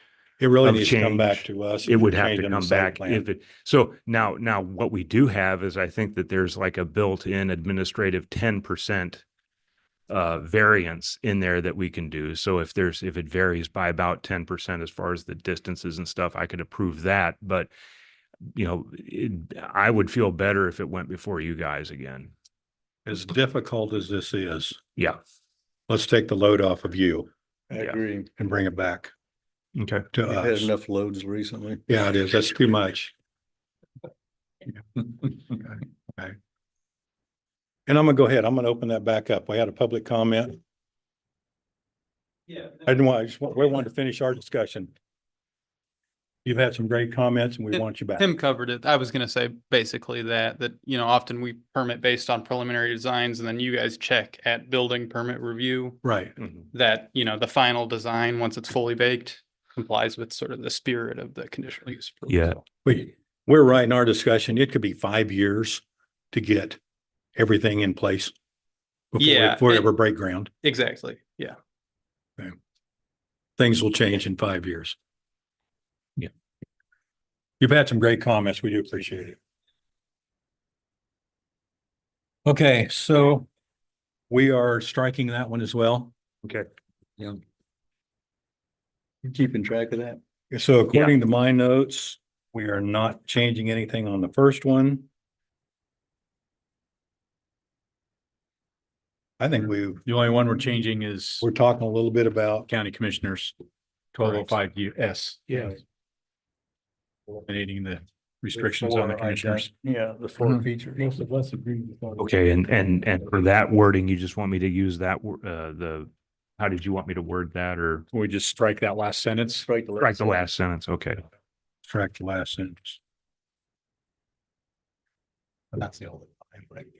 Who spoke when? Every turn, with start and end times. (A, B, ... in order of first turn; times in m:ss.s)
0:00.4-0:03.2 A
0:00.6-0:09.2 B
0:10.1-0:17.7 B
0:18.5-0:22.3 B
0:23.0-0:24.8 A
0:25.9-0:27.3 A
0:27.7-0:28.3 C
0:28.4-0:29.1 A
0:29.7-0:30.1 B
0:30.1-0:30.7 A
0:30.2-0:31.8 C
0:31.9-0:33.1 A
0:35.5-0:36.3 A
0:37.9-0:40.6 A
0:42.8-0:44.9 A
0:46.4-0:48.3 A
0:48.2-0:56.0 D
0:56.0-0:56.3 A
0:56.4-0:56.7 B
0:56.7-1:02.6 D
1:02.3-1:02.6 B
1:02.8-1:06.8 A
1:07.4-1:08.3 A
1:09.1-1:10.5 A
1:09.2-1:09.9 D
1:10.6-1:11.6 D
1:13.6-1:15.0 A
1:17.6-1:19.4 A
1:22.4-1:23.5 A
1:24.3-1:26.1 A
1:29.2-1:30.2 C
1:30.5-1:35.1 A
1:39.4-1:40.0 A
1:40.0-1:41.5 E
1:41.4-1:42.7 A
1:42.7-1:43.6 E
1:44.1-1:45.8 E
1:47.4-1:49.7 E
1:48.6-1:51.7 C
1:52.2-1:58.0 B
1:58.1-1:59.7 E
1:59.5-2:00.5 C
2:00.0-2:01.2 B
2:01.8-2:03.0 A
2:05.8-2:06.3 C